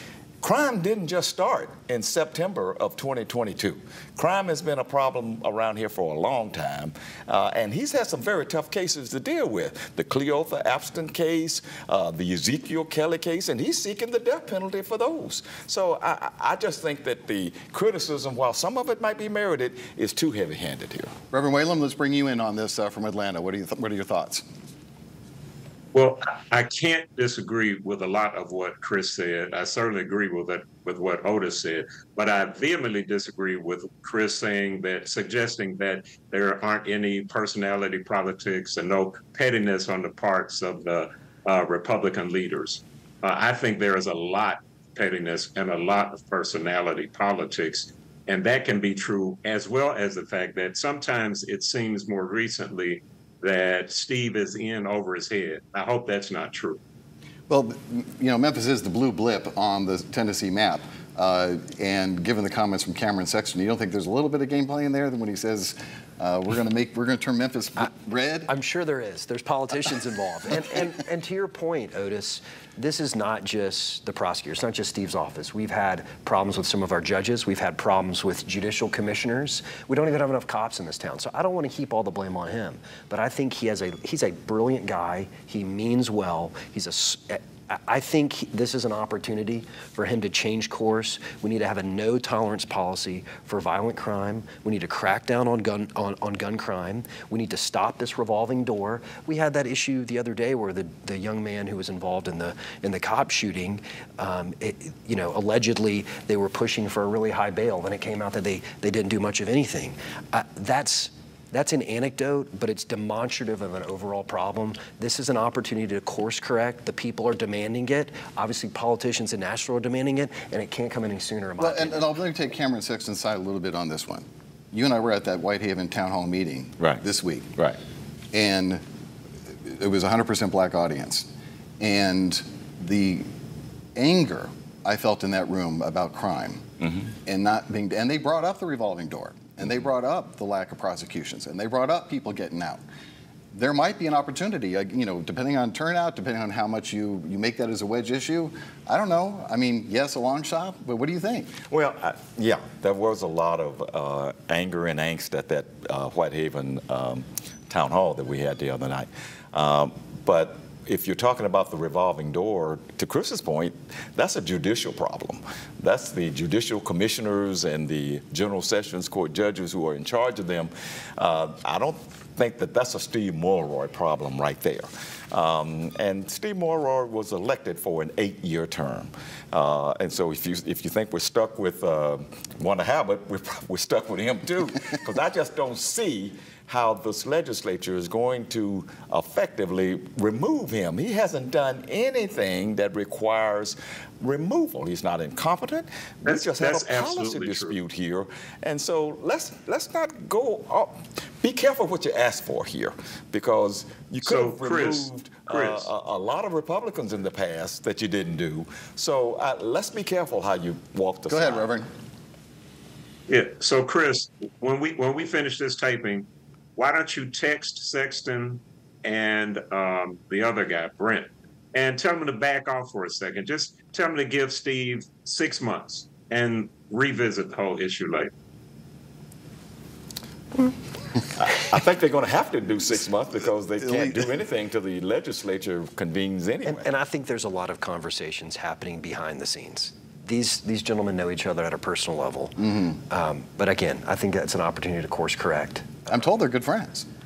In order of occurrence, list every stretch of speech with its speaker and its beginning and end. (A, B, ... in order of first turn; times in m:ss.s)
0:00.4-0:21.1 A
0:21.3-0:24.4 B
0:25.9-0:56.8 C
0:57.5-1:08.5 B
1:08.5-2:02.2 D
2:01.6-2:07.5 B
2:08.3-2:08.8 B
2:09.7-2:11.3 B
2:11.8-2:13.3 B
2:14.0-2:16.6 B
2:16.8-2:17.1 A
2:17.2-2:22.8 B
2:23.5-2:31.5 B
2:31.7-3:31.7 A
3:16.3-3:17.8 C
3:24.2-3:25.9 C
3:31.3-3:31.9 B
3:33.3-3:48.3 C
3:51.3-3:56.9 A
3:53.8-3:54.3 B
3:56.6-4:06.1 D
4:02.6-4:03.0 B
4:06.1-4:07.1 B